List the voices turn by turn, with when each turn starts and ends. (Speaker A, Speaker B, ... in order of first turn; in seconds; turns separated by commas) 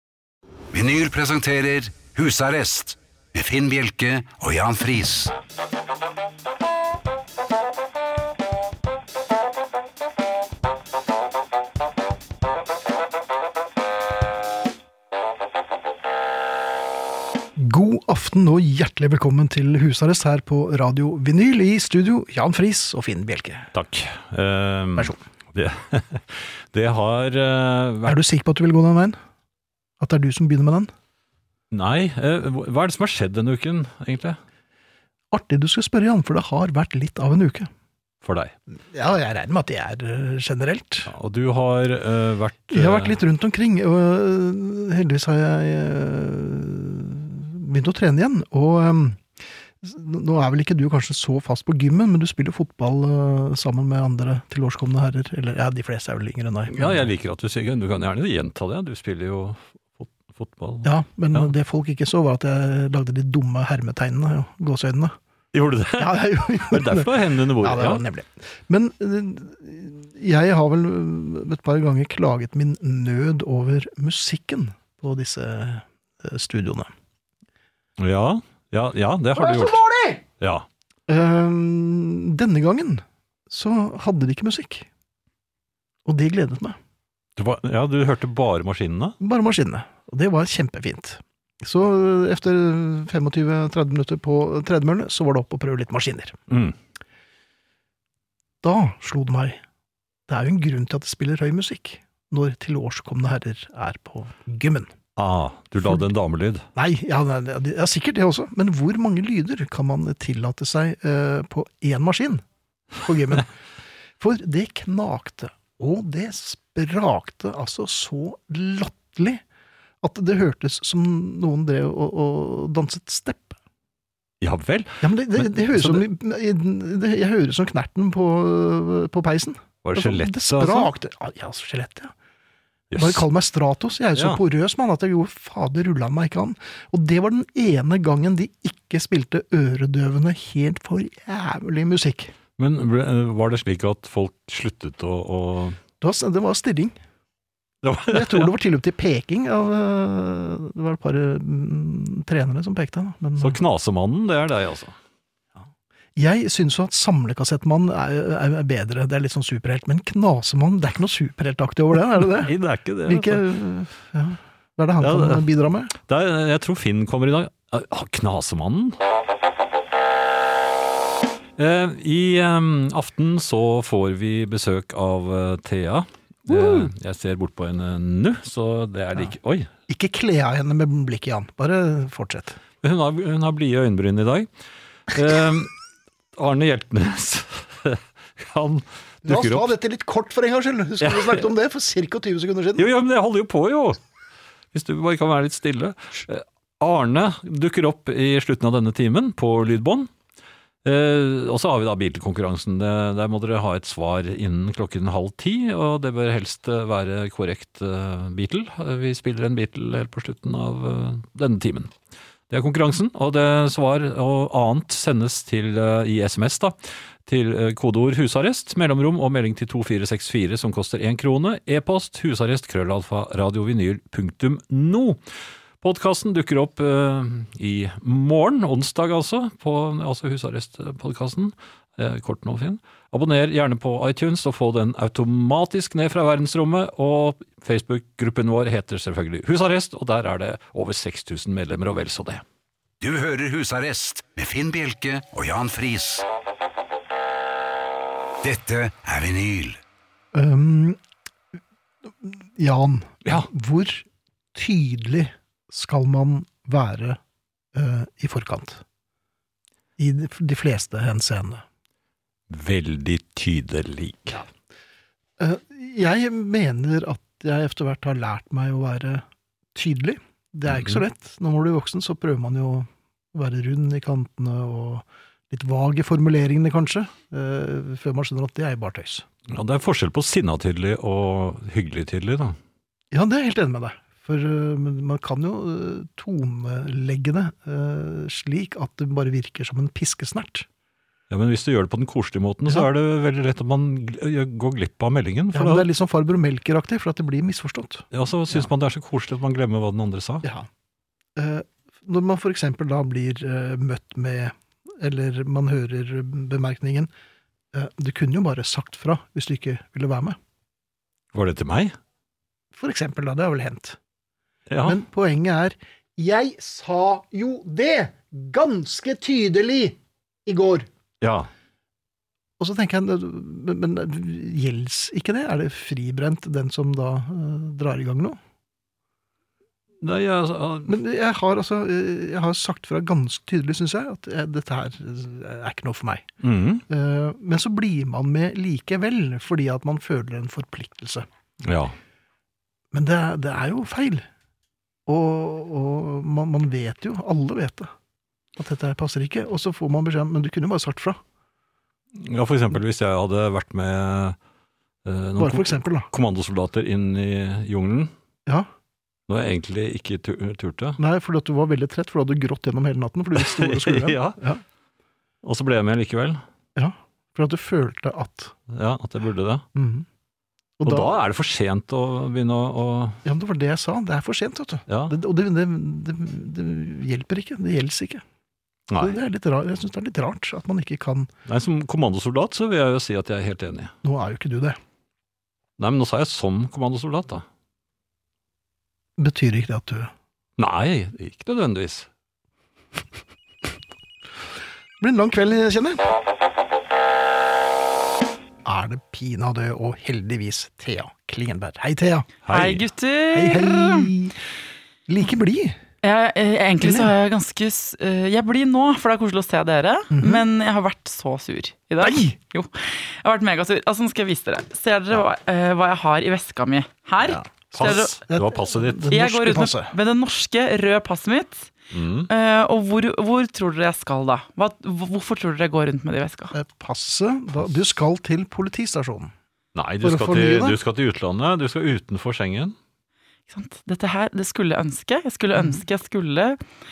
Speaker A: 0.7-5.3, Speaker B: 17.6-23.7, Speaker C: 23.7-28.2, Speaker B: 24.9-25.2, Speaker B: 28.0-29.2, Speaker B: 30.0-30.9, Speaker C: 31.7-34.4, Speaker B: 35.3-37.7, Speaker C: 38.2-38.5, Speaker B: 38.9-41.1, Speaker C: 41.0-43.2, Speaker B: 42.7-49.3, Speaker B: 49.8-57.0, Speaker C: 56.7-61.5, Speaker B: 60.8-65.2, Speaker C: 65.5-68.0, Speaker B: 66.0-76.9, Speaker C: 78.0-79.8, Speaker B: 79.3-80.2, Speaker C: 80.4-80.7, Speaker B: 81.1-84.9, Speaker B: 86.0-86.8, Speaker C: 87.4-89.1, Speaker B: 89.2-96.4, Speaker C: 96.5-96.8, Speaker B: 98.6-99.6, Speaker B: 100.3-104.9, Speaker C: 105.2-106.7, Speaker B: 106.8-112.4, Speaker B: 113.0-113.5, Speaker B: 114.2-119.4, Speaker B: 120.0-123.6, Speaker C: 124.4-126.0, Speaker B: 125.0-132.1, Speaker C: 129.8-130.9, Speaker C: 132.9-133.2, Speaker B: 132.9-142.3, Speaker C: 134.1-134.4, Speaker C: 142.6-145.8, Speaker B: 146.0-146.9, Speaker C: 147.8-148.5, Speaker B: 148.1-153.6, Speaker C: 153.4-154.9, Speaker B: 156.2-165.9, Speaker C: 162.4-163.4, Speaker C: 165.0-169.0, Speaker C: 171.6-179.7, Speaker B: 176.5-176.9, Speaker B: 179.9-182.6, Speaker C: 182.8-184.5, Speaker C: 185.1-185.7, Speaker C: 186.4-189.7, Speaker B: 189.2-192.9, Speaker C: 191.0-191.5, Speaker C: 192.8-194.0, Speaker C: 194.7-200.1, Speaker C: 200.8-211.9, Speaker C: 212.5-225.2, Speaker C: 225.8-242.4, Speaker A: 243.0-246.2, Speaker A: 248.4-249.8, Speaker B: 250.3-251.0, Speaker B: 252.1-257.2, Speaker B: 257.7-258.8, Speaker B: 260.0-261.6, Speaker C: 262.5-264.4, Speaker B: 265.4-279.2, Speaker C: 270.7-271.0, Speaker C: 279.5-282.6, Speaker B: 283.1-290.7, Speaker C: 291.3-295.9, Speaker B: 295.5-298.7, Speaker C: 298.1-300.4, Speaker B: 300.4-300.7, Speaker B: 301.4-307.1, Speaker B: 307.7-310.4, Speaker C: 311.3-311.9, Speaker B: 312.7-314.0, Speaker C: 314.7-315.0, Speaker B: 314.8-320.9, Speaker C: 321.2-321.5, Speaker B: 322.6-328.4, Speaker C: 330.0-330.9, Speaker B: 330.9-336.3, Speaker C: 336.4-336.8, Speaker B: 336.9-341.3, Speaker C: 341.6-341.9, Speaker B: 342.9-344.2, Speaker B: 345.1-347.9, Speaker B: 348.6-351.2, Speaker C: 352.1-354.4, Speaker C: 355.0-358.1, Speaker B: 355.4-356.1, Speaker C: 359.3-361.0, Speaker B: 361.0-364.6, Speaker C: 363.4-364.4, Speaker C: 365.4-366.4, Speaker B: 366.8-368.5, Speaker C: 368.7-369.6, Speaker B: 369.7-370.1, Speaker B: 370.8-371.2, Speaker C: 370.8-373.2, Speaker B: 373.2-378.2, Speaker C: 374.9-375.1, Speaker C: 378.9-379.1, Speaker B: 379.0-381.3, Speaker C: 381.5-383.9, Speaker B: 384.0-384.8, Speaker C: 385.8-387.4, Speaker B: 389.2-390.1, Speaker C: 390.6-392.1, Speaker B: 395.0-396.1, Speaker B: 398.6-402.3, Speaker C: 402.4-402.8, Speaker D: 402.5-404.1, Speaker B: 403.3-404.4, Speaker B: 405.1-405.8, Speaker D: 406.0-418.2, Speaker B: 406.8-407.1, Speaker B: 410.1-410.4, Speaker B: 412.0-412.4, Speaker B: 417.2-419.9, Speaker C: 417.7-419.2, Speaker D: 419.1-421.7, Speaker C: 421.9-422.3, Speaker D: 422.3-426.5, Speaker B: 426.5-429.3, Speaker C: 429.7-432.7, Speaker B: 430.0-430.8, Speaker D: 433.5-436.6, Speaker B: 435.6-435.8